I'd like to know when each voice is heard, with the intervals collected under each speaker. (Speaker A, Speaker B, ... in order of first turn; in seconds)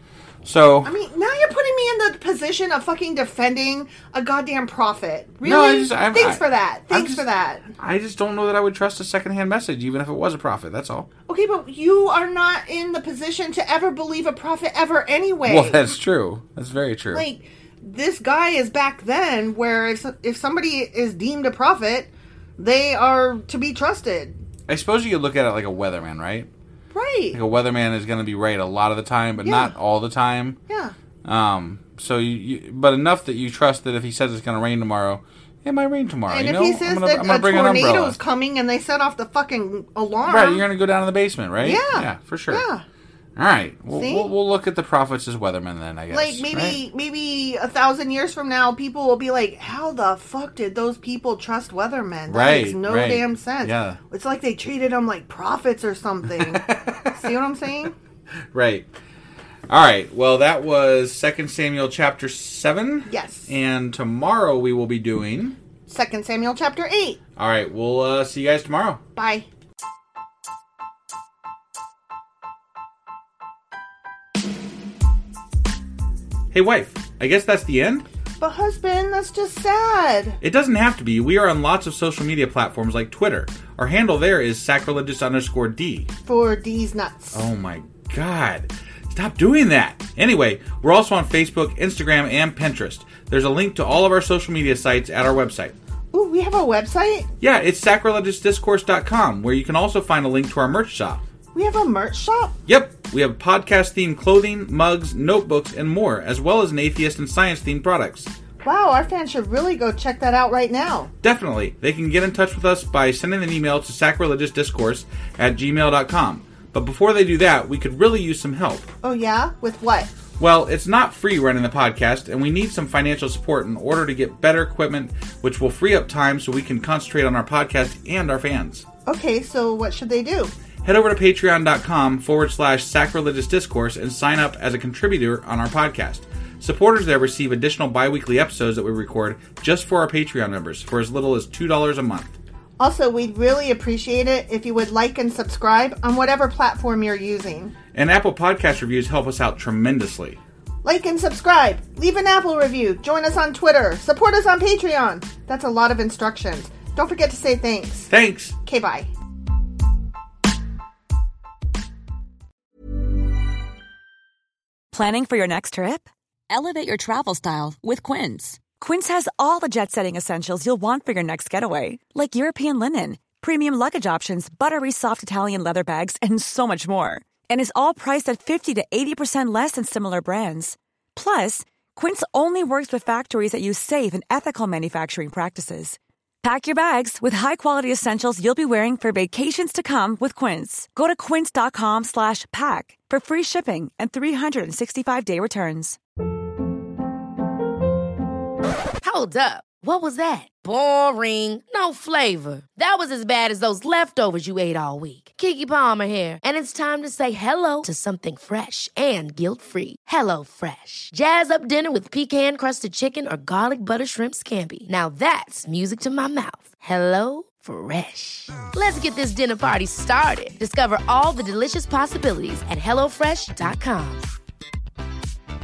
Speaker A: 0.4-0.9, 5.4-7.2, 7.8-11.1, 15.4-17.2, 24.7-26.5, 27.3-30.6, 31.2-38.2, 40.3-42.6, 43.4-46.8, 52.3-54.0, 56.4-57.1, 58.5-58.9, 59.7-65.6, 67.4-69.0, 76.5-78.0, 80.4-86.1, 87.3-95.7, 97.4-101.2, 102.7-108.3, 111.2-118.9, 120.4-128.8, 130.8-142.3, 147.9-150.4, 158.1-158.6
Speaker B: 0.8-7.7, 11.3-15.9, 17.1-24.4, 26.9-27.4, 29.4-29.7, 30.7-30.9, 36.3-40.6, 41.6-42.8, 43.9-44.3, 46.1-57.9, 63.1-63.5, 65.9-67.2, 69.2-69.5, 78.4-80.4, 86.2-87.5, 96.1-97.3, 101.5-102.5, 108.6-111.1, 119.0-120.1, 129.1-130.5, 142.8-147.7, 150.8-158.1, 158.6-159.1
Speaker C: 164.9-196.0
Speaker D: 199.0-224.3